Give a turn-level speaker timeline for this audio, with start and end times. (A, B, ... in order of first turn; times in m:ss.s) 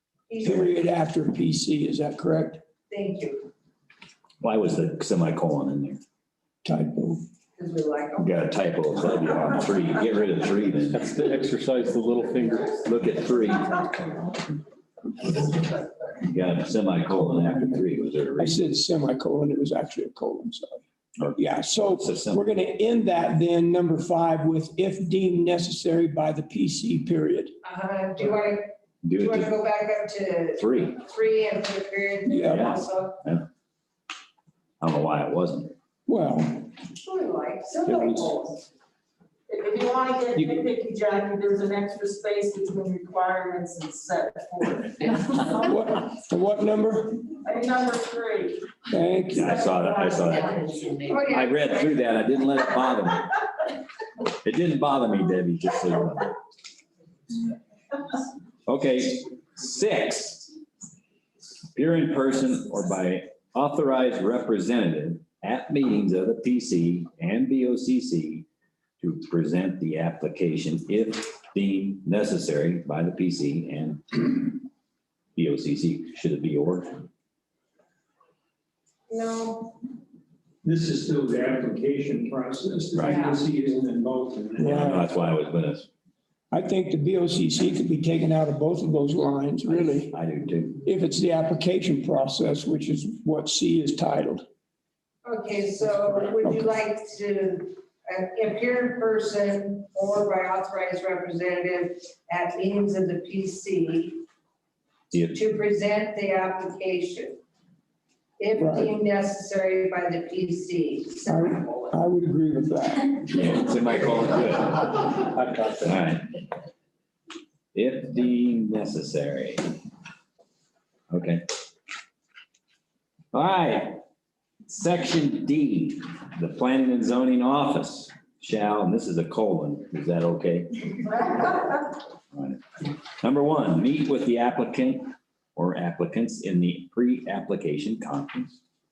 0:00.3-0:00.8 A
0:00.4-0:02.6 B
0:02.9-0:03.5 A
0:04.4-0:06.0 C
0:06.6-0:07.2 B
0:07.6-0:08.4 A
0:08.2-0:11.0 C
0:10.9-0:12.8 D
0:12.8-0:14.4 C
0:16.2-0:18.6 C
0:18.4-0:20.8 B
0:21.2-0:22.5 C
0:21.4-0:27.5 B
0:27.6-0:33.2 A
0:29.0-0:29.5 C
0:30.6-0:31.0 C
0:32.3-0:32.7 B
0:32.5-0:33.4 C
0:34.8-0:35.7 C
0:36.1-0:36.7 B
0:37.0-0:38.6 A
0:39.5-0:45.7 E
0:40.4-0:40.6 C
0:45.6-0:47.3 B
0:47.3-0:48.7 E
0:48.9-0:49.6 B
0:49.3-0:53.3 C
0:49.4-0:50.9 E
0:50.2-0:52.0 A
0:54.4-0:56.3 C
0:58.7-1:00.5 C
1:01.8-1:08.5 C
1:09.0-1:14.6 C
1:15.4-1:17.0 C
1:19.1-1:19.7 A
1:20.6-1:24.6 F
1:23.0-1:23.3 C
1:23.0-1:23.4 A
1:24.6-1:25.9 C
1:24.6-1:25.1 B
1:26.5-1:30.1 B
1:29.7-1:30.8 C
1:30.8-1:34.5 B
1:35.2-1:44.2 A
1:45.3-1:47.4 A
1:48.4-1:52.0 A
1:48.6-1:48.9 B
1:51.3-1:53.3 B
1:53.3-1:55.2 C
1:55.2-1:56.0 D
1:55.8-1:56.3 C
1:57.7-1:59.7 C
2:01.1-2:01.4 C
2:03.3-2:04.0 C
2:04.7-2:11.8 C
2:12.3-2:18.6 C